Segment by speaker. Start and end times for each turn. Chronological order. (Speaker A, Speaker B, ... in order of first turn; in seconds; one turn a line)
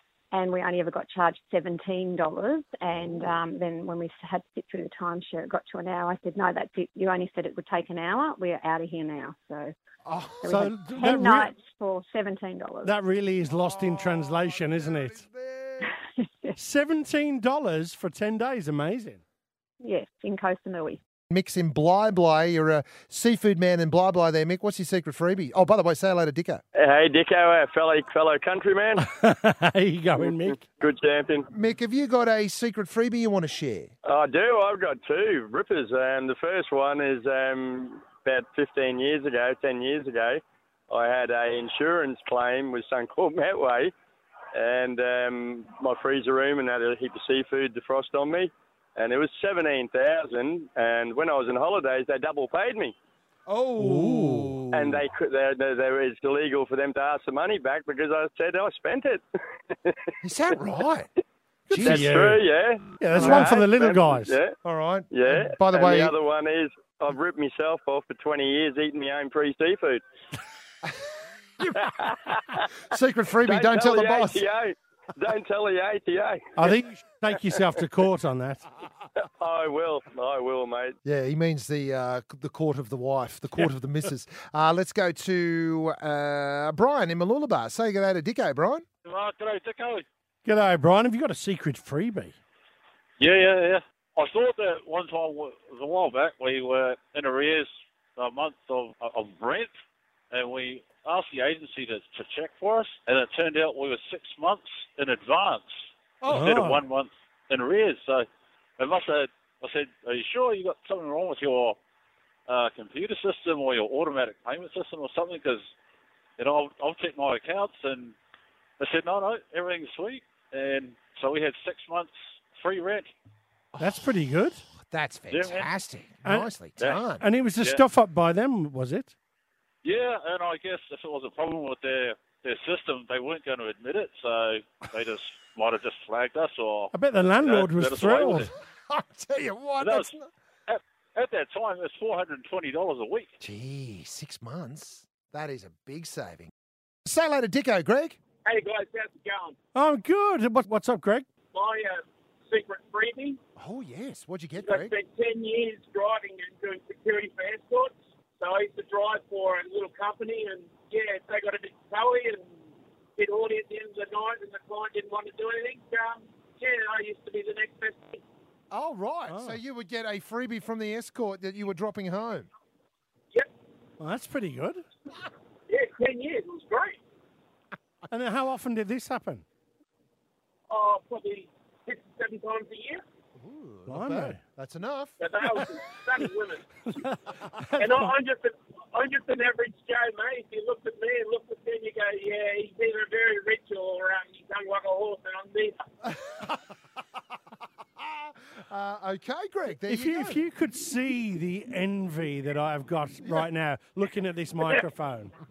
Speaker A: 0.3-9.7
Speaker B: 2.9-3.4
Speaker B: 10.0-10.7
Speaker C: 10.4-11.5
Speaker A: 10.4-12.9
Speaker C: 12.8-15.2
Speaker B: 13.5-15.9
Speaker C: 16.6-19.2
Speaker A: 19.8-21.0
Speaker B: 21.3-26.6
Speaker D: 26.7-29.1
Speaker C: 29.0-30.6
Speaker D: 30.1-31.5
Speaker B: 31.5-33.9
Speaker D: 34.0-43.9
Speaker D: 44.5-52.9
Speaker B: 53.5-55.0
Speaker C: 53.8-54.5
Speaker D: 54.7-60.1
Speaker B: 60.2-61.1
Speaker C: 61.7-62.4
Speaker B: 61.7-62.0
Speaker D: 61.8-64.5
Speaker C: 63.0-64.4
Speaker B: 63.1-63.5
Speaker B: 64.6-66.2
Speaker D: 65.1-70.0
Speaker D: 71.7-72.6
Speaker B: 72.9-74.4
Speaker D: 73.4-76.4
Speaker C: 76.5-78.6
Speaker D: 79.2-80.9
Speaker B: 81.0-88.8
Speaker E: 89.0-90.0
Speaker C: 90.4-92.3
Speaker E: 93.2-99.7
Speaker E: 100.3-105.7
Speaker E: 106.2-108.3
Speaker C: 106.3-106.8
Speaker E: 108.8-111.8
Speaker E: 112.5-115.6
Speaker E: 116.4-118.1
Speaker E: 118.8-123.1
Speaker B: 123.7-124.1
Speaker C: 123.8-124.6
Speaker B: 124.8-127.2
Speaker E: 125.3-125.7
Speaker E: 126.8-127.0
Speaker C: 127.2-129.1
Speaker E: 129.8-138.5
Speaker C: 136.9-138.5
Speaker B: 138.2-140.3
Speaker E: 139.8-140.1
Speaker E: 140.7-143.3
Speaker B: 143.4-146.5
Speaker B: 147.0-148.2
Speaker F: 148.5-149.5
Speaker C: 149.7-151.3
Speaker F: 151.6-151.9
Speaker F: 152.5-153.3
Speaker B: 153.6-154.9
Speaker F: 154.7-162.4
Speaker F: 163.2-168.2
Speaker B: 168.7-172.5
Speaker C: 169.3-169.6
Speaker C: 174.0-174.8
Speaker F: 175.7-177.0
Speaker C: 178.1-179.4
Speaker F: 180.7-182.9
Speaker B: 183.3-185.2
Speaker C: 183.9-184.4
Speaker F: 185.2-186.6
Speaker C: 186.9-187.2
Speaker F: 187.8-195.7
Speaker B: 196.1-196.6
Speaker B: 198.2-200.4
Speaker C: 199.9-205.3